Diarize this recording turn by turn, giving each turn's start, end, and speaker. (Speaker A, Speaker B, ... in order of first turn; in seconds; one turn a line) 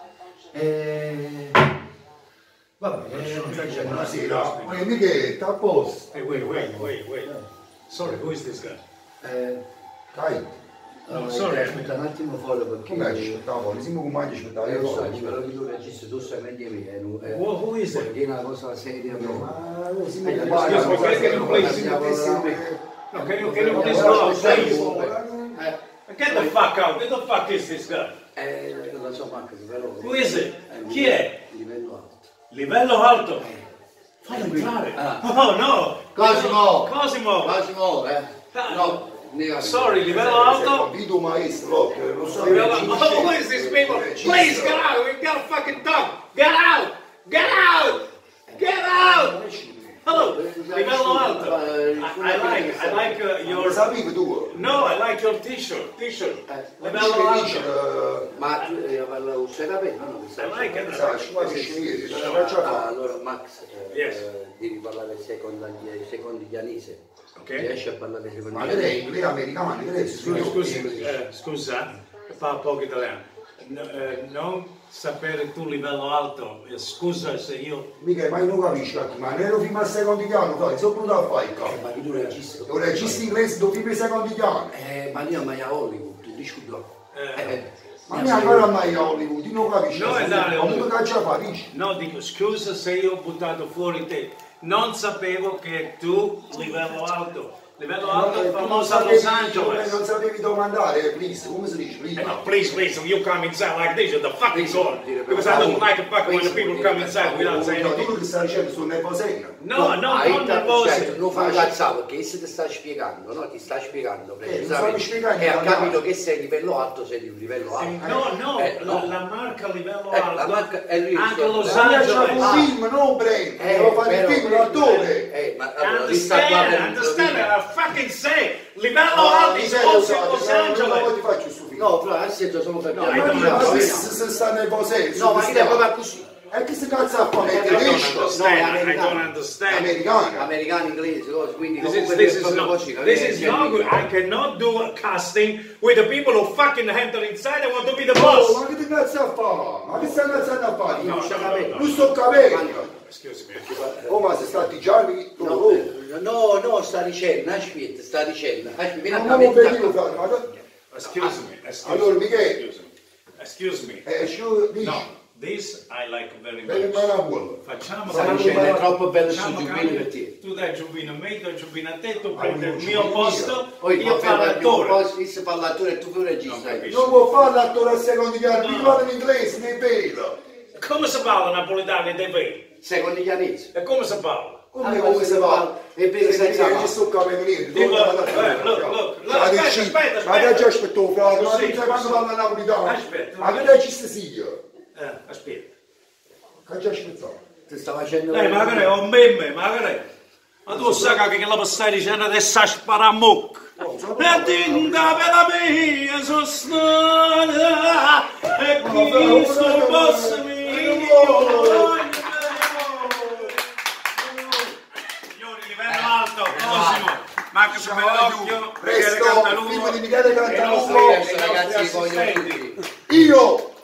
Speaker A: 0.5-1.6
Speaker A: 2.8-4.2
Speaker B: 3.0-4.9
Speaker C: 3.7-6.1
Speaker B: 6.1-7.3
Speaker A: 6.3-7.4
Speaker B: 7.9-8.8
Speaker A: 9.2-9.6
Speaker C: 10.1-10.6
Speaker A: 11.1-13.4
Speaker B: 11.1-11.9
Speaker C: 12.8-15.4
Speaker A: 14.6-19.6
Speaker B: 17.2-18.1
Speaker C: 19.1-22.8
Speaker A: 20.2-26.6
Speaker B: 20.6-21.9
Speaker B: 23.1-24.9
Speaker C: 23.7-25.6
Speaker B: 26.1-28.2
Speaker A: 28.3-32.2
Speaker B: 30.0-31.4
Speaker B: 32.5-33.5
Speaker A: 33.4-33.6
Speaker B: 34.2-37.6
Speaker A: 34.3-35.3
Speaker A: 36.1-40.6
Speaker B: 38.5-39.0
Speaker B: 39.6-40.9
Speaker C: 40.2-44.9
Speaker A: 42.2-44.6
Speaker B: 42.4-49.4
Speaker A: 48.5-49.5
Speaker C: 49.4-50.0
Speaker B: 50.0-53.9
Speaker A: 50.0-53.8
Speaker C: 53.5-54.6
Speaker B: 54.5-57.7
Speaker A: 56.5-56.8
Speaker C: 56.8-58.4
Speaker A: 58.3-69.3
Speaker B: 60.4-61.1
Speaker C: 60.9-62.9
Speaker B: 62.1-62.7
Speaker B: 63.9-64.2
Speaker B: 67.3-67.7
Speaker C: 68.5-70.9
Speaker A: 70.2-71.2
Speaker B: 70.2-77.9
Speaker C: 78.0-81.8
Speaker A: 81.6-83.3
Speaker B: 82.1-82.3
Speaker C: 82.7-84.7
Speaker A: 84.7-88.8
Speaker B: 87.1-87.6
Speaker C: 88.1-91.7
Speaker B: 89.9-90.9
Speaker B: 91.7-100.0
Speaker C: 96.5-96.9
Speaker C: 98.0-102.5
Speaker B: 102.2-108.2
Speaker A: 104.5-107.7
Speaker C: 105.4-105.8
Speaker C: 107.5-109.6
Speaker B: 109.6-111.2
Speaker A: 109.7-119.1
Speaker C: 111.3-111.7
Speaker C: 114.4-116.0
Speaker B: 117.7-122.7
Speaker A: 120.1-122.7
Speaker C: 121.6-125.3
Speaker A: 123.5-127.5
Speaker B: 125.8-131.1
Speaker C: 129.2-131.9
Speaker A: 131.7-134.1
Speaker B: 132.9-134.0
Speaker C: 133.0-135.9
Speaker A: 135.1-136.3
Speaker C: 136.5-138.4
Speaker A: 137.4-139.3
Speaker B: 137.6-140.0
Speaker C: 139.7-140.5
Speaker A: 140.3-144.1
Speaker B: 141.8-148.6
Speaker C: 148.1-152.9
Speaker A: 149.8-152.9
Speaker B: 151.0-152.2
Speaker B: 152.9-153.7
Speaker A: 153.6-154.6
Speaker C: 154.1-155.9
Speaker A: 155.4-160.3
Speaker C: 159.1-160.5
Speaker B: 160.9-164.0
Speaker A: 161.0-161.4
Speaker C: 161.8-162.6
Speaker C: 164.0-165.1
Speaker B: 164.8-167.1
Speaker C: 166.6-168.8
Speaker B: 167.6-175.0
Speaker A: 168.1-170.3
Speaker C: 172.3-173.6
Speaker A: 173.8-176.9
Speaker B: 176.4-177.2
Speaker C: 176.9-180.4
Speaker B: 178.4-179.0
Speaker B: 180.7-182.7
Speaker A: 182.8-183.7
Speaker B: 183.7-184.6
Speaker C: 184.7-194.6
Speaker A: 184.8-186.9
Speaker B: 187.7-192.3
Speaker B: 192.8-193.7
Speaker B: 194.9-195.7
Speaker C: 196.6-197.4
Speaker A: 197.7-199.0
Speaker B: 198.3-200.0
Speaker B: 200.7-213.6
Speaker C: 200.7-201.2
Speaker C: 203.8-205.3
Speaker C: 208.8-213.6
Speaker C: 214.2-214.7
Speaker B: 215.1-222.7
Speaker A: 215.8-217.2
Speaker C: 217.7-221.2
Speaker A: 220.6-222.9
Speaker C: 223.1-223.7